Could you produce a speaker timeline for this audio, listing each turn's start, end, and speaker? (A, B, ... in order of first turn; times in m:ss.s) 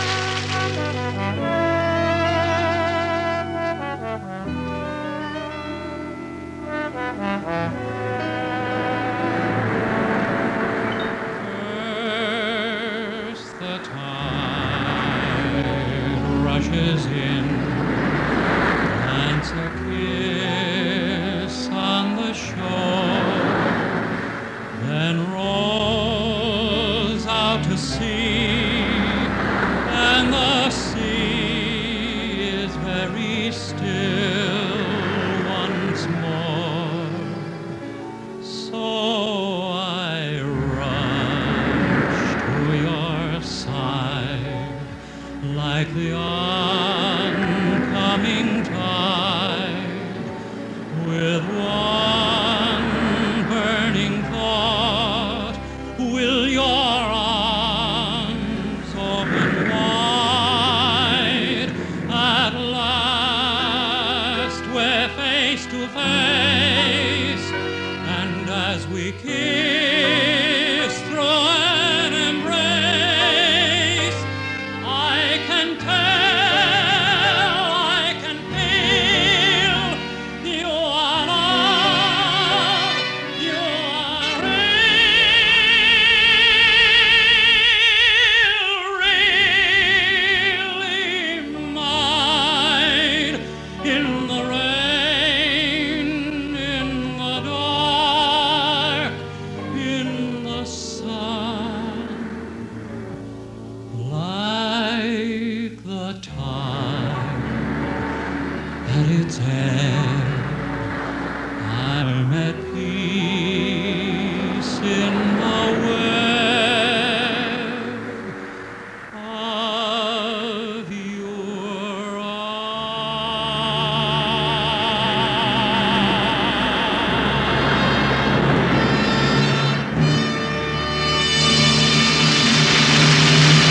0:11.3-0:18.1 A
0:18.8-0:23.9 A
0:24.7-0:29.3 A
0:29.8-0:37.7 A
0:38.4-0:50.3 A
0:50.9-1:14.3 A
1:14.8-1:42.4 A
1:43.9-1:47.7 A
1:48.8-1:50.8 A
1:51.6-1:58.3 A
1:59.1-2:05.3 A